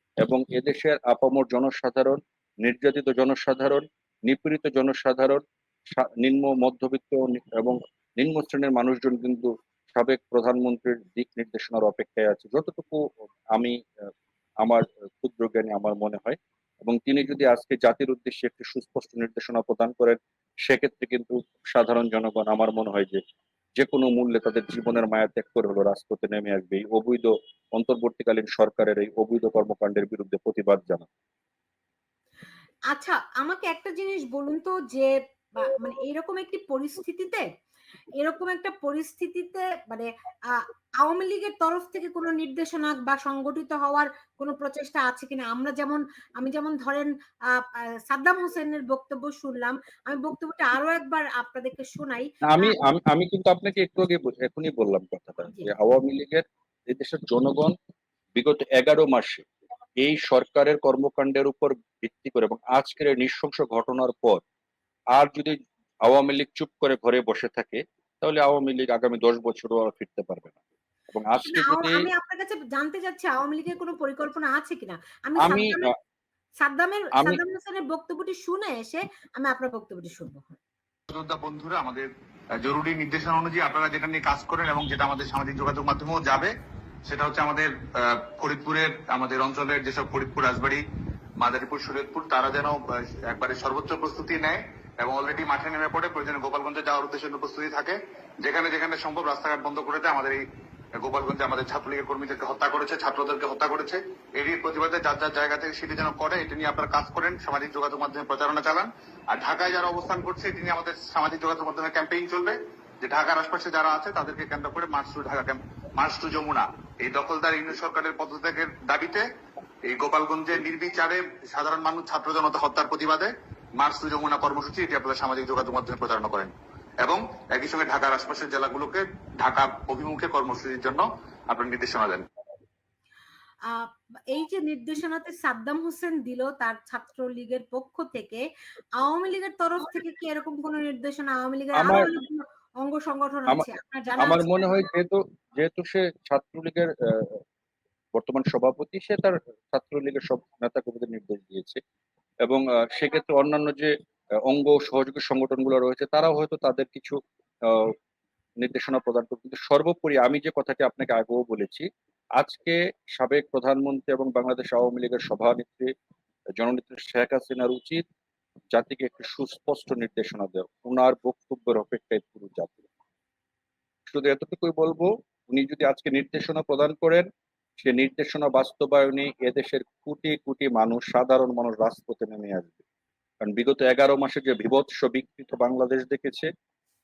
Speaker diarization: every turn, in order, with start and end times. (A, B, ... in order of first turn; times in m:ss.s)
0:00.2-0:13.8 A
0:14.6-0:23.2 A
0:23.8-0:31.1 A
0:32.9-0:37.4 B
0:38.2-0:52.8 B
0:52.5-0:57.7 A
0:58.3-0:59.4 A
1:00.0-1:04.4 A
1:05.1-1:10.6 A
1:11.1-1:12.0 A
1:11.4-1:15.9 B
1:15.4-1:15.8 A
1:16.6-1:20.6 B
1:21.1-1:26.5 C
1:27.0-1:30.8 C
1:31.4-1:40.4 C
1:41.0-1:59.2 C
1:59.8-2:12.2 C
2:13.7-2:18.4 B
2:19.0-2:24.8 B
2:21.7-2:22.1 A
2:24.2-2:27.4 A
2:28.1-2:31.8 A
2:32.4-2:33.9 A
2:34.4-2:37.9 A
2:38.6-2:41.8 A
2:42.4-2:45.9 A
2:46.6-2:48.0 A
2:48.7-2:52.8 A
2:54.1-2:57.3 A
2:57.8-3:02.8 A
3:03.4-3:06.5 A